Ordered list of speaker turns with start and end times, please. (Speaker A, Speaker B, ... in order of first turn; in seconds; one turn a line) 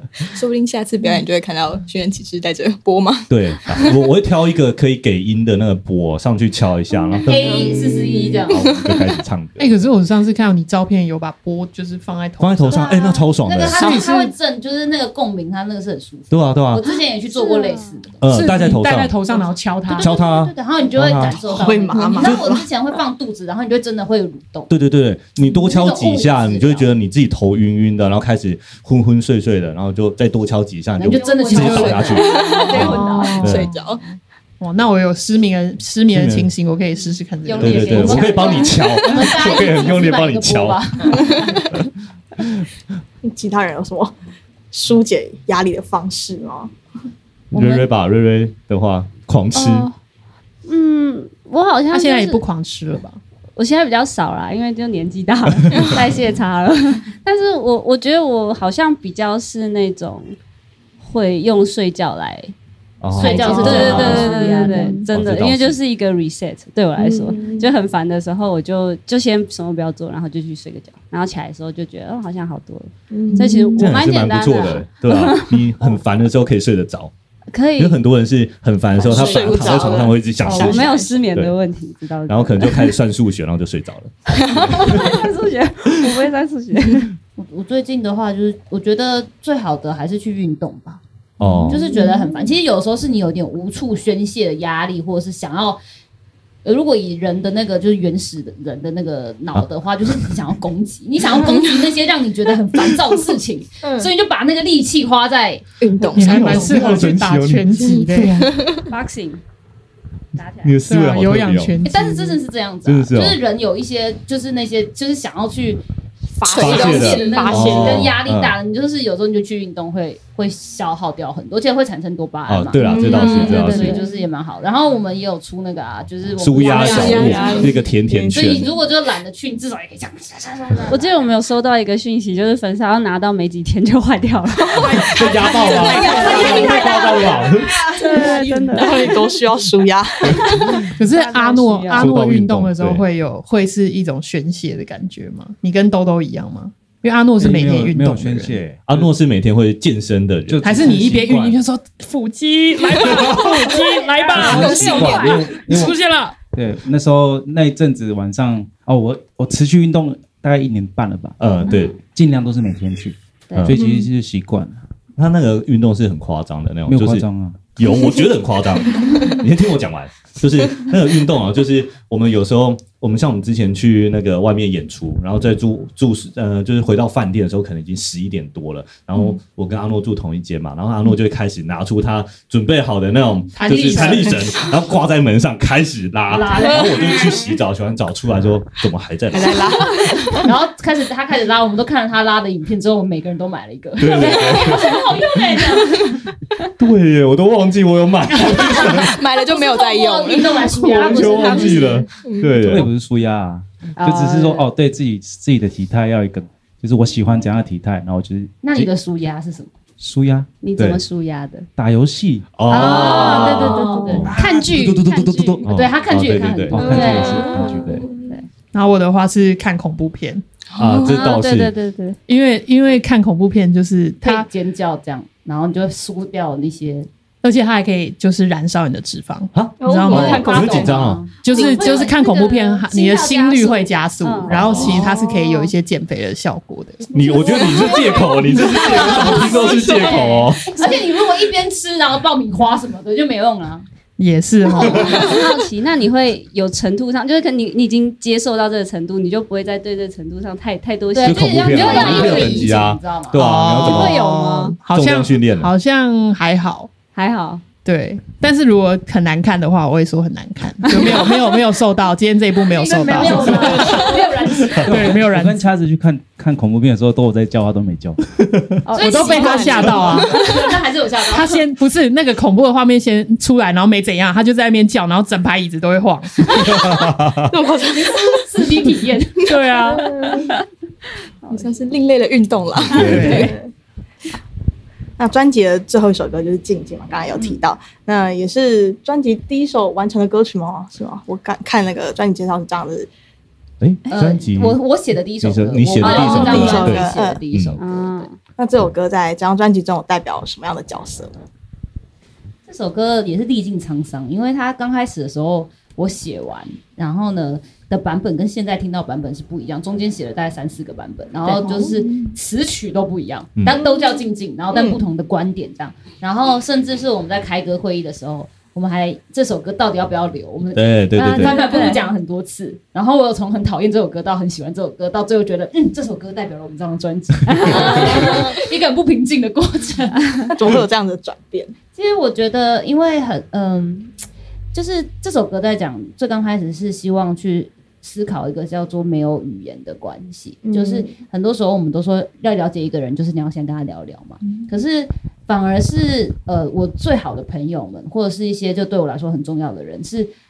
Speaker A: 0.3-4.1
Speaker B: 3.3-7.6
Speaker C: 7.2-8.8
Speaker D: 7.3-8.4
Speaker B: 8.5-9.8
Speaker E: 9.6-13.1
Speaker B: 12.4-14.0
Speaker C: 13.4-18.2
Speaker E: 13.7-14.3
Speaker B: 16.3-16.8
Speaker F: 17.3-18.0
Speaker B: 18.2-19.3
Speaker E: 18.3-20.1
Speaker C: 19.9-24.7
Speaker B: 19.9-21.4
Speaker D: 21.5-22.6
Speaker B: 22.2-22.6
Speaker B: 24.7-33.7
Speaker C: 25.5-26.9
Speaker C: 31.0-33.4
Speaker F: 31.1-33.5
Speaker E: 31.5-32.0
Speaker A: 32.2-34.0
Speaker E: 32.8-33.7
Speaker E: 34.6-38.4
Speaker B: 36.1-36.5
Speaker F: 37.5-38.8
Speaker C: 37.6-41.4
Speaker B: 37.6-41.1
Speaker D: 43.2-44.1
Speaker D: 44.7-46.7
Speaker B: 47.5-49.9
Speaker F: 49.5-50.0
Speaker F: 50.7-52.5
Speaker E: 51.9-53.2
Speaker F: 53.6-60.4
Speaker F: 61.0-62.5
Speaker B: 63.0-64.4
Speaker F: 63.1-76.0
Speaker C: 63.1-65.1
Speaker B: 65.1-65.8
Speaker D: 67.0-67.7
Speaker D: 73.1-73.9
Speaker B: 73.8-77.1
Speaker F: 77.5-78.0
Speaker B: 77.8-81.5
Speaker D: 79.0-81.2
Speaker A: 79.1-80.9
Speaker F: 80.5-82.9
Speaker B: 82.3-85.2
Speaker F: 84.7-87.1
Speaker C: 87.4-91.0
Speaker B: 91.4-91.9
Speaker D: 91.5-92.3
Speaker C: 91.7-95.8
Speaker C: 96.6-105.6
Speaker D: 103.8-104.1
Speaker A: 105.8-106.8
Speaker B: 106.1-107.9
Speaker E: 106.1-108.6
Speaker F: 108.9-109.4
Speaker F: 110.4-110.7
Speaker B: 110.6-111.8
Speaker E: 110.9-112.4
Speaker C: 111.8-115.8
Speaker B: 112.8-113.4
Speaker A: 116.4-117.9
Speaker D: 116.4-118.1
Speaker B: 116.5-118.6
Speaker C: 116.5-127.7
Speaker B: 122.5-124.0
Speaker A: 122.8-123.3
Speaker F: 123.0-124.1
Speaker B: 126.4-128.7
Speaker D: 126.7-128.6
Speaker A: 127.2-127.6
Speaker C: 128.3-131.3
Speaker F: 130.9-137.2
Speaker E: 134.9-136.9
Speaker B: 135.2-137.9
Speaker C: 135.8-137.4
Speaker F: 137.8-139.3
Speaker D: 137.8-140.5
Speaker F: 140.6-142.2
Speaker E: 140.9-148.6
Speaker B: 141.9-143.1
Speaker G: 147.4-149.1
Speaker B: 148.8-151.1
Speaker G: 150.5-151.6
Speaker E: 150.6-156.3
Speaker F: 153.7-155.6
Speaker G: 154.4-156.0
Speaker A: 154.4-155.3
Speaker G: 156.5-161.4
Speaker B: 161.4-162.0
Speaker G: 162.0-164.8
Speaker B: 163.6-163.8
Speaker D: 163.7-164.1
Speaker B: 165.2-189.7
Speaker G: 166.9-167.7
Speaker E: 183.6-184.7
Speaker C: 183.7-184.3
Speaker C: 186.3-187.1
Speaker D: 189.3-190.4
Speaker A: 189.3-189.7
Speaker C: 190.4-196.0
Speaker B: 194.0-195.0
Speaker B: 196.8-199.2
Speaker C: 198.4-202.0
Speaker A: 199.1-200.9
Speaker F: 200.8-202.1
Speaker B: 200.9-202.9
Speaker A: 202.2-202.6
Speaker G: 202.6-208.9
Speaker F: 204.0-204.7
Speaker C: 208.6-209.7
Speaker G: 210.0-210.5
Speaker F: 210.6-211.7
Speaker G: 211.8-212.5
Speaker B: 212.6-217.0
Speaker F: 212.7-215.6
Speaker C: 212.7-217.6
Speaker G: 216.7-218.0
Speaker D: 216.8-218.3
Speaker B: 217.7-218.1
Speaker F: 218.2-218.5
Speaker E: 218.7-220.4
Speaker A: 220.8-221.2
Speaker B: 220.8-221.7
Speaker F: 221.0-222.2
Speaker E: 222.3-224.5
Speaker C: 224.2-227.1
Speaker E: 227.4-230.8
Speaker B: 229.5-231.3
Speaker D: 229.8-231.0
Speaker C: 230.1-231.3
Speaker F: 231.4-234.8
Speaker E: 231.4-237.2
Speaker A: 231.6-231.9
Speaker B: 234.5-235.1
Speaker D: 235.0-235.3
Speaker B: 237.1-240.8
Speaker C: 237.4-243.8
Speaker F: 239.0-240.3
Speaker D: 239.5-240.1
Speaker E: 244.2-245.2
Speaker F: 245.1-252.7
Speaker C: 251.1-253.4
Speaker B: 251.2-254.2
Speaker E: 253.3-256.9
Speaker F: 253.8-254.8
Speaker B: 254.9-255.7
Speaker F: 257.1-257.6
Speaker E: 257.9-264.2
Speaker C: 262.8-264.9
Speaker F: 262.9-263.9
Speaker G: 264.9-268.2
Speaker E: 264.9-265.6
Speaker C: 268.9-271.7
Speaker F: 268.9-269.8
Speaker E: 268.9-270.3
Speaker A: 269.7-270.2
Speaker E: 271.3-276.7
Speaker B: 276.6-277.5
Speaker D: 277.5-278.4
Speaker C: 277.9-279.7
Speaker E: 279.5-280.1
Speaker D: 280.0-280.5
Speaker A: 281.5-283.6
Speaker B: 282.9-283.5
Speaker E: 282.9-283.5
Speaker D: 283.1-283.7
Speaker D: 285.2-293.1
Speaker B: 293.8-294.8
Speaker C: 294.1-298.3
Speaker B: 295.4-297.8
Speaker D: 296.0-297.4
Speaker F: 296.2-296.8
Speaker F: 297.8-298.4
Speaker D: 298.6-301.3
Speaker C: 302.7-330.3
Speaker D: 311.5-312.1
Speaker D: 313.7-314.2
Speaker D: 314.7-315.0
Speaker B: 320.8-321.6
Speaker F: 321.2-322.0
Speaker D: 321.7-321.9
Speaker F: 327.5-328.5
Speaker D: 330.5-331.7
Speaker C: 331.9-334.1
Speaker C: 334.7-350.3
Speaker D: 340.6-341.1